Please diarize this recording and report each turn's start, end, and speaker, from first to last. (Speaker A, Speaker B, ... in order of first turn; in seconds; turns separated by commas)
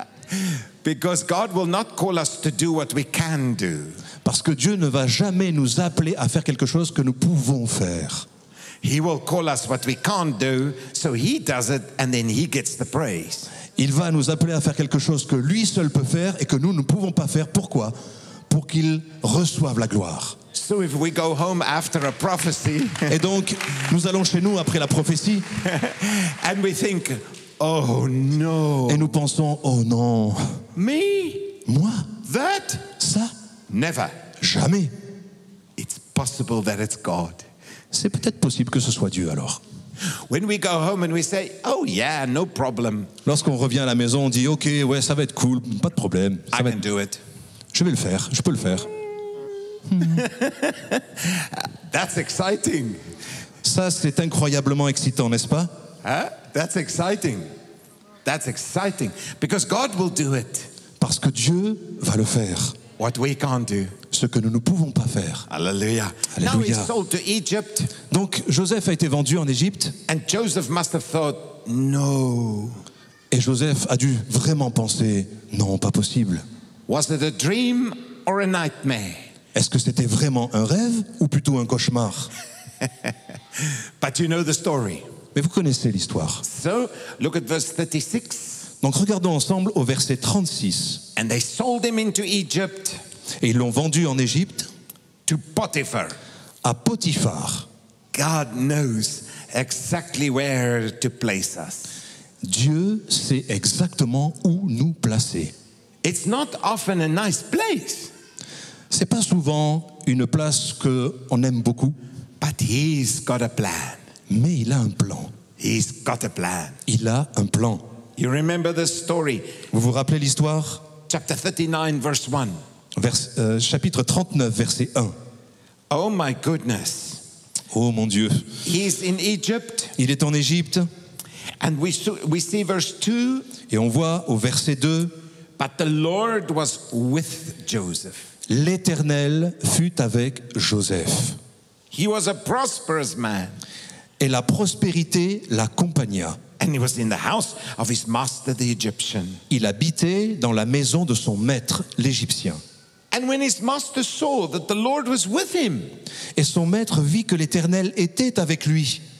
Speaker A: 0.3-4.0, Speaker B: 4.2-8.2, Speaker A: 8.8-13.5, Speaker B: 13.8-17.9, Speaker B: 18.5-20.4, Speaker A: 20.5-23.2, Speaker B: 23.1-25.5, Speaker A: 25.6-29.1, Speaker B: 28.9-30.6, Speaker A: 30.8-31.6, Speaker B: 31.6-32.1, Speaker A: 32.2-32.9, Speaker B: 33.0-33.3, Speaker A: 33.7-34.1, Speaker B: 34.4-34.9, Speaker A: 35.8-37.4, Speaker B: 37.9-39.6, Speaker A: 40.3-43.1, Speaker B: 43.2-46.8, Speaker A: 46.5-47.2, Speaker B: 47.7-48.9, Speaker B: 49.9-50.2, Speaker A: 50.0-53.0, Speaker B: 53.6-55.7, Speaker A: 56.0-57.5, Speaker A: 58.2-60.7, Speaker B: 61.0-62.7, Speaker A: 63.0-63.9, Speaker B: 64.1-65.5, Speaker A: 65.5-67.9, Speaker B: 66.3-66.9, Speaker B: 68.0-70.0, Speaker A: 70.1-72.8, Speaker B: 73.3-76.4, Speaker A: 76.9-79.3, Speaker B: 79.5-82.3, Speaker A: 83.6-85.1, Speaker B: 85.3-86.4, Speaker A: 86.4-88.7, Speaker B: 88.8-91.0, Speaker A: 91.2-93.0, Speaker B: 93.4-94.7, Speaker A: 95.2-96.2, Speaker B: 96.6-97.7, Speaker A: 98.1-101.9, Speaker B: 102.4-105.5, Speaker A: 106.0-108.1, Speaker B: 108.9-112.0, Speaker A: 112.4-114.0, Speaker B: 114.3-115.3, Speaker A: 115.6-116.8, Speaker B: 116.9-117.8, Speaker A: 118.2-119.5, Speaker B: 119.7-120.8, Speaker A: 121.1-122.6, Speaker B: 122.9-125.1, Speaker A: 125.9-127.2, Speaker B: 127.7-128.5, Speaker A: 128.6-129.9, Speaker B: 129.9-130.9, Speaker A: 131.6-133.5, Speaker B: 133.7-135.1, Speaker A: 135.6-138.3, Speaker B: 138.5-141.4, Speaker A: 141.9-143.6, Speaker B: 144.2-146.4, Speaker A: 146.6-149.4, Speaker B: 149.5-152.6, Speaker A: 153.1-155.9, Speaker B: 156.3-159.0